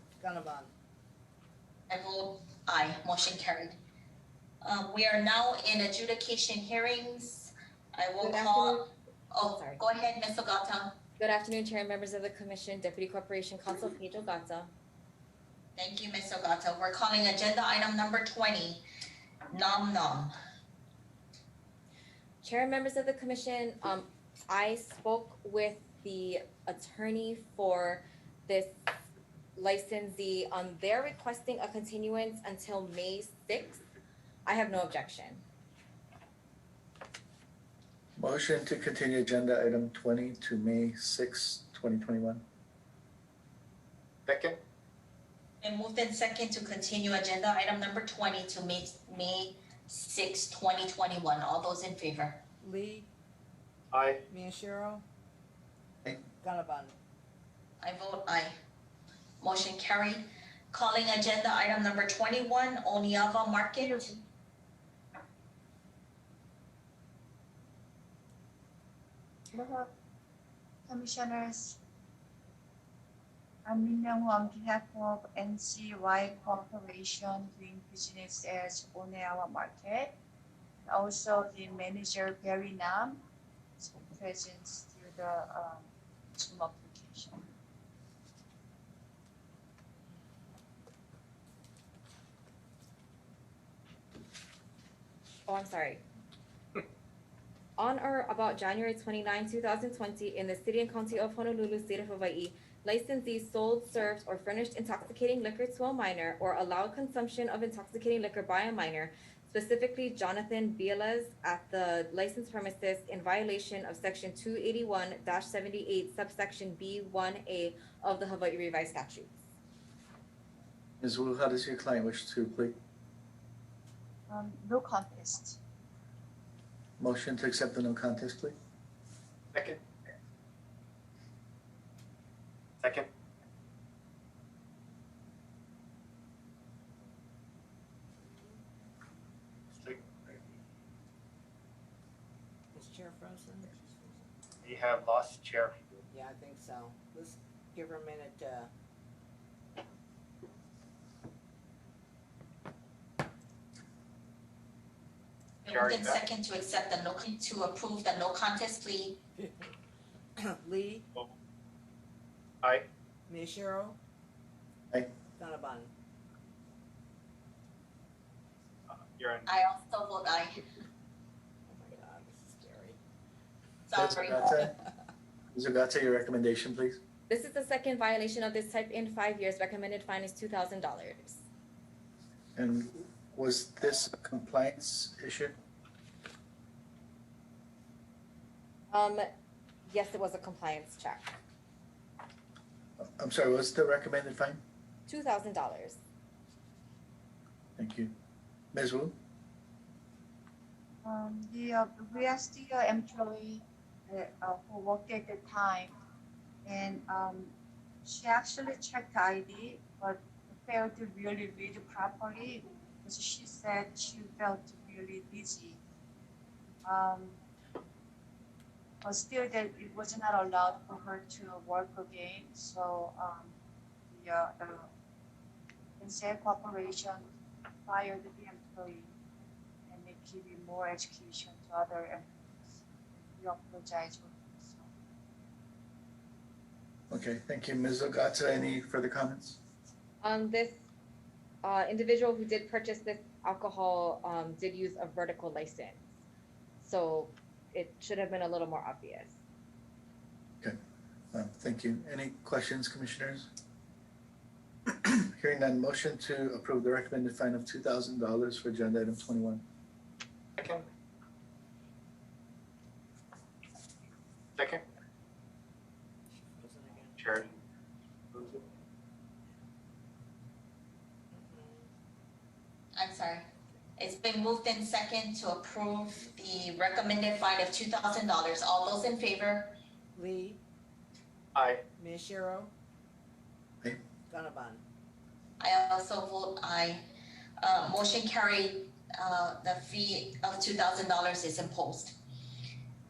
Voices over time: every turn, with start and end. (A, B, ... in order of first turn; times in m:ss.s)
0:00.2-0:00.7 A
0:01.9-0:03.8 B
0:04.6-0:08.8 B
0:08.2-0:08.9 C
0:09.3-0:11.0 B
0:09.5-0:09.8 C
0:11.2-0:14.7 C
0:15.8-0:18.8 B
0:19.5-0:20.3 B
0:22.4-0:28.7 C
0:29.6-0:33.8 C
0:34.4-0:35.4 C
0:38.2-0:42.4 D
0:44.3-0:44.6 E
0:45.6-0:52.4 B
0:52.6-0:53.1 A
0:53.9-0:54.2 E
0:54.3-0:55.0 A
0:56.4-0:57.0 A
0:57.8-0:58.6 B
0:59.4-1:04.1 B
1:03.8-1:04.2 F
1:09.5-1:09.9 F
1:10.9-1:11.8 F
1:13.6-1:20.1 F
1:20.8-1:23.2 F
1:23.8-1:27.5 F
1:35.5-1:36.0 C
1:37.8-1:59.3 C
2:01.0-2:02.8 D
2:04.3-2:05.6 F
2:07.0-2:08.5 D
2:09.5-2:09.8 E
2:12.8-2:13.1 E
2:22.7-2:24.3 A
2:24.6-2:26.0 E
2:26.1-2:28.7 A
2:35.6-2:39.2 B
2:35.7-2:36.2 E
2:40.4-2:41.1 A
2:42.6-2:42.9 E
2:43.3-2:44.0 A
2:45.4-2:45.9 A
2:49.0-2:49.5 E
2:49.5-2:50.6 B
2:51.7-2:53.0 A
2:53.9-2:54.6 B
2:53.9-2:54.7 D
2:55.5-2:57.0 D
2:57.3-3:01.4 C
3:02.6-3:05.5 D
3:08.9-3:09.2 C
3:09.8-3:11.4 C
3:13.0-3:14.6 D
3:15.1-3:16.0 C
3:17.8-3:18.1 D
3:18.7-3:19.1 D
3:21.0-3:25.9 F
3:26.6-3:27.5 F
3:28.0-3:35.8 F
3:36.8-3:37.4 F
3:39.0-3:43.5 F
3:44.1-3:44.9 F
3:46.0-3:47.2 F
3:47.8-3:49.1 F
3:49.9-3:54.9 F
3:57.1-3:59.6 D
4:00.2-4:00.8 C
4:01.6-4:06.0 C
4:06.8-4:09.3 C
4:11.3-4:13.5 D
4:15.0-4:19.6 D
4:20.6-4:20.8 E
4:24.6-4:24.8 E
4:26.6-4:27.4 A
4:27.2-4:27.4 E
4:28.3-4:28.6 E
4:31.3-4:31.9 A
4:32.9-4:39.8 B
4:40.1-4:40.6 A
4:41.5-4:41.8 E
4:42.0-4:42.7 A
4:44.3-4:44.8 A
4:45.6-4:47.0 B
4:47.6-4:52.2 B